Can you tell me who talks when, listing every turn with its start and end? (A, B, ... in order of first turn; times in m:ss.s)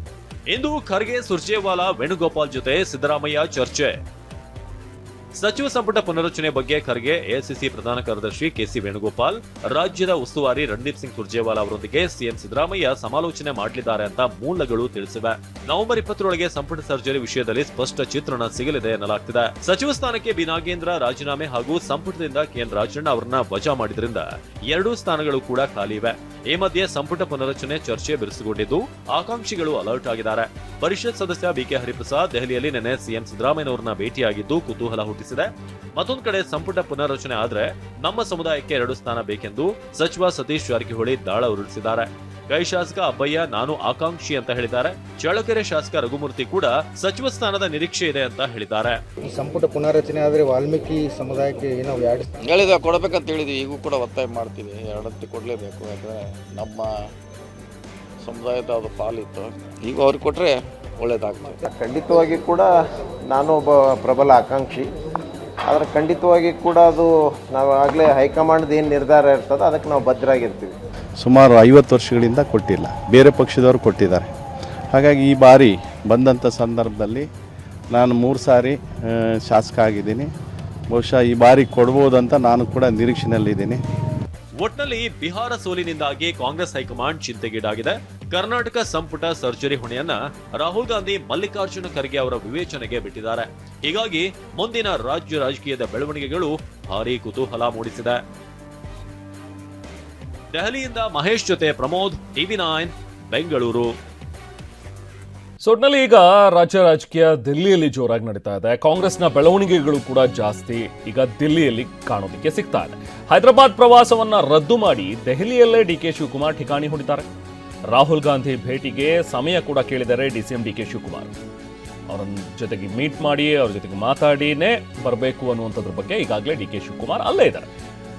0:00.5-0:04.0 A
0:05.4-0:49.0 A
0:49.3-0:52.3 B
0:52.4-0:57.0 C
0:58.2-1:01.6 C
1:01.6-1:02.7 D
1:03.3-1:04.9 D
1:05.6-1:10.7 D
1:11.2-1:14.3 E
1:14.9-1:17.3 E
1:17.9-1:20.3 E
1:20.9-1:23.8 E
1:24.6-1:38.2 A
1:40.5-1:43.9 A
1:45.6-1:57.3 F
1:57.9-2:01.3 F
2:02.1-2:07.7 F